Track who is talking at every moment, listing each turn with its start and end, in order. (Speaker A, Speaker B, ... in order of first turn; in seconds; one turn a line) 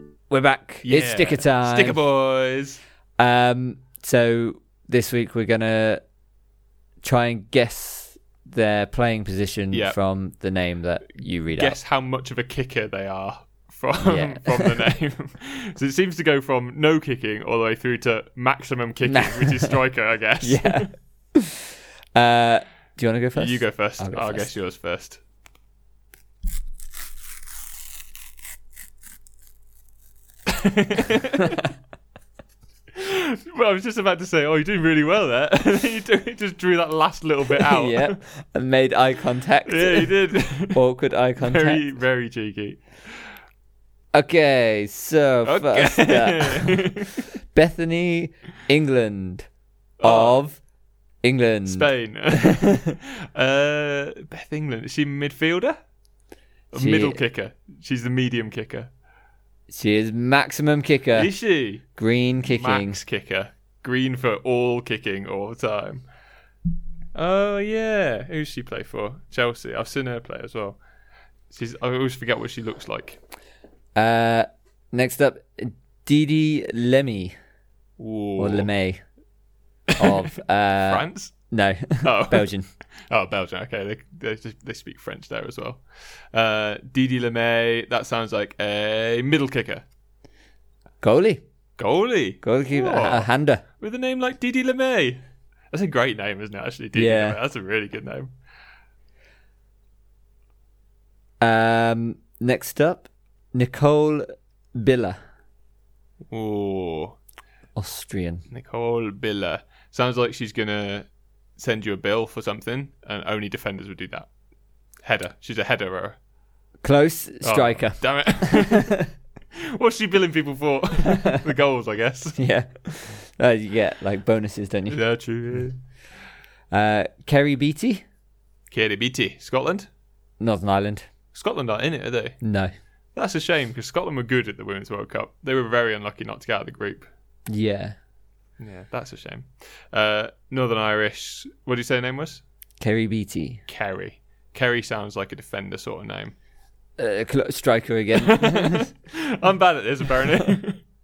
Speaker A: 0.3-2.0
Speaker B: 0.8-2.8
Speaker A: 3.2-6.0
Speaker A: 7.0-11.8
Speaker B: 9.7-10.0
Speaker B: 11.5-20.9
Speaker A: 14.1-14.8
Speaker A: 19.1-19.7
Speaker A: 20.4-21.6
Speaker A: 22.1-24.5
Speaker B: 23.3-25.2
Speaker B: 30.5-31.6
Speaker B: 33.0-38.1
Speaker A: 37.6-41.8
Speaker B: 39.7-40.8
Speaker B: 41.4-42.9
Speaker A: 44.1-46.9
Speaker B: 45.4-47.2
Speaker A: 47.5-49.5
Speaker B: 50.0-50.4
Speaker A: 50.0-50.6
Speaker A: 51.2-51.9
Speaker B: 51.6-55.8
Speaker B: 56.7-58.9
Speaker A: 56.7-57.2
Speaker A: 59.7-61.3
Speaker B: 61.1-61.8
Speaker A: 62.0-63.0
Speaker B: 62.4-66.0
Speaker B: 67.1-70.8
Speaker B: 71.5-73.2
Speaker A: 74.0-77.3
Speaker B: 78.0-78.7
Speaker A: 78.4-79.0
Speaker A: 80.0-82.7
Speaker B: 80.8-81.3
Speaker B: 82.0-82.5
Speaker B: 83.1-85.8
Speaker B: 86.3-89.8
Speaker A: 91.0-91.4
Speaker B: 91.8-93.3
Speaker A: 92.4-93.6
Speaker B: 93.8-95.2
Speaker B: 95.7-98.3
Speaker A: 96.9-97.4
Speaker A: 101.4-105.2
Speaker B: 106.3-107.2
Speaker A: 107.8-108.5
Speaker B: 108.5-114.3
Speaker B: 115.0-116.2
Speaker A: 116.8-118.9
Speaker B: 117.4-119.0
Speaker B: 119.8-122.4
Speaker A: 122.4-125.0
Speaker B: 124.9-125.8
Speaker A: 126.7-128.0
Speaker B: 128.7-129.9
Speaker A: 130.4-131.0
Speaker B: 131.3-132.4
Speaker A: 132.4-132.7
Speaker B: 133.1-137.1
Speaker A: 137.5-137.9
Speaker B: 138.6-142.4
Speaker A: 142.8-143.6
Speaker B: 143.7-146.3
Speaker A: 147.0-148.9
Speaker B: 148.6-150.8